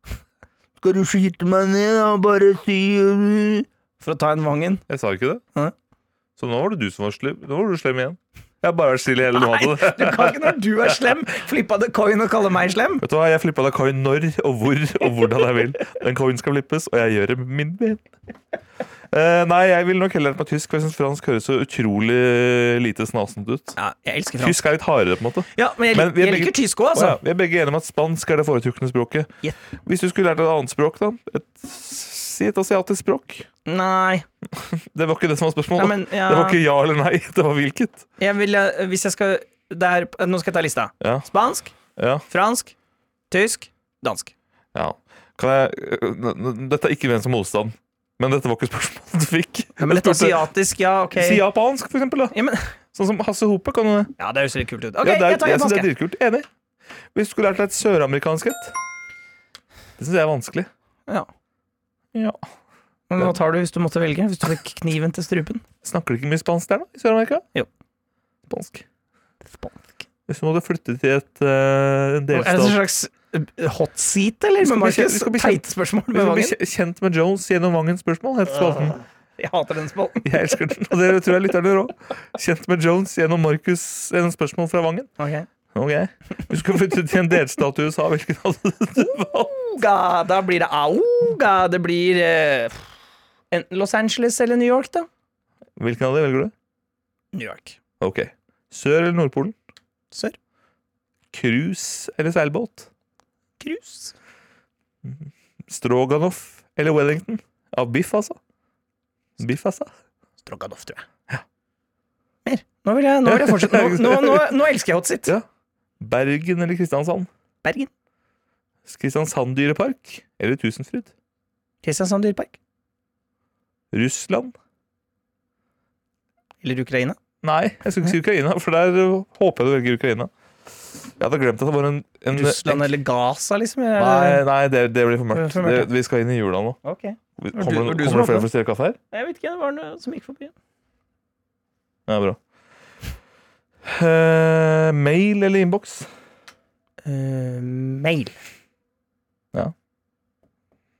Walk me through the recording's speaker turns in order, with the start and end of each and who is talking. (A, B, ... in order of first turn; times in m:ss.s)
0:00.8-0:04.8 A
0:04.9-0:05.4 B
0:06.4-0:10.6 B
0:09.3-0:13.0 A
0:13.0-0:18.0 B
0:19.1-0:23.8 B
0:23.8-0:24.7 A
0:24.4-0:29.3 B
0:25.5-0:27.2 A
0:29.8-0:33.5 B
0:33.6-0:34.2 A
0:34.5-0:38.0 B
0:35.8-0:36.6 A
0:38.2-0:41.7 A
0:41.0-0:41.3 B
0:42.0-0:42.2 B
0:42.3-0:42.7 A
0:43.3-0:44.3 A
0:44.7-0:50.5 B
0:49.8-0:51.4 A
0:51.1-0:52.4 B
0:52.3-0:52.7 A
0:52.9-0:54.1 B
0:54.2-0:55.9 A
0:55.0-0:56.5 B
0:57.1-0:58.7 B
1:00.0-1:00.7 B
1:02.1-1:02.4 B
1:03.1-1:05.6 A
1:05.8-1:07.4 B
1:08.5-1:08.8 B
1:09.5-1:10.0 A
1:10.3-1:12.8 B
1:12.3-1:16.6 A
1:14.6-1:19.0 B
1:18.5-1:20.5 A
1:20.2-1:25.1 B
1:25.2-1:25.5 A
1:25.7-1:29.5 B
1:29.1-1:32.9 A
1:33.5-1:35.1 A
1:35.8-1:36.5 B
1:37.3-1:37.8 A
1:38.0-1:39.6 B
1:41.3-1:42.9 B
1:43.6-1:44.1 A
1:45.0-1:48.4 B
1:49.4-1:49.9 B
1:50.4-1:51.0 A
1:52.4-1:55.3 A
1:53.2-1:54.6 B
1:56.0-1:57.3 B
1:57.6-1:57.9 A
1:58.8-2:01.1 B
2:01.8-2:02.5 A
2:03.9-2:04.5 B
2:06.6-2:07.2 A
2:07.4-2:10.3 B
2:11.2-2:12.9 B
2:12.3-2:14.4 A
2:14.0-2:16.8 B
2:15.3-2:15.9 A
2:16.8-2:18.5 A
2:17.4-2:19.0 B
2:19.1-2:20.5 A
2:22.1-2:22.4 B
2:23.8-2:26.1 B
2:27.0-2:28.4 A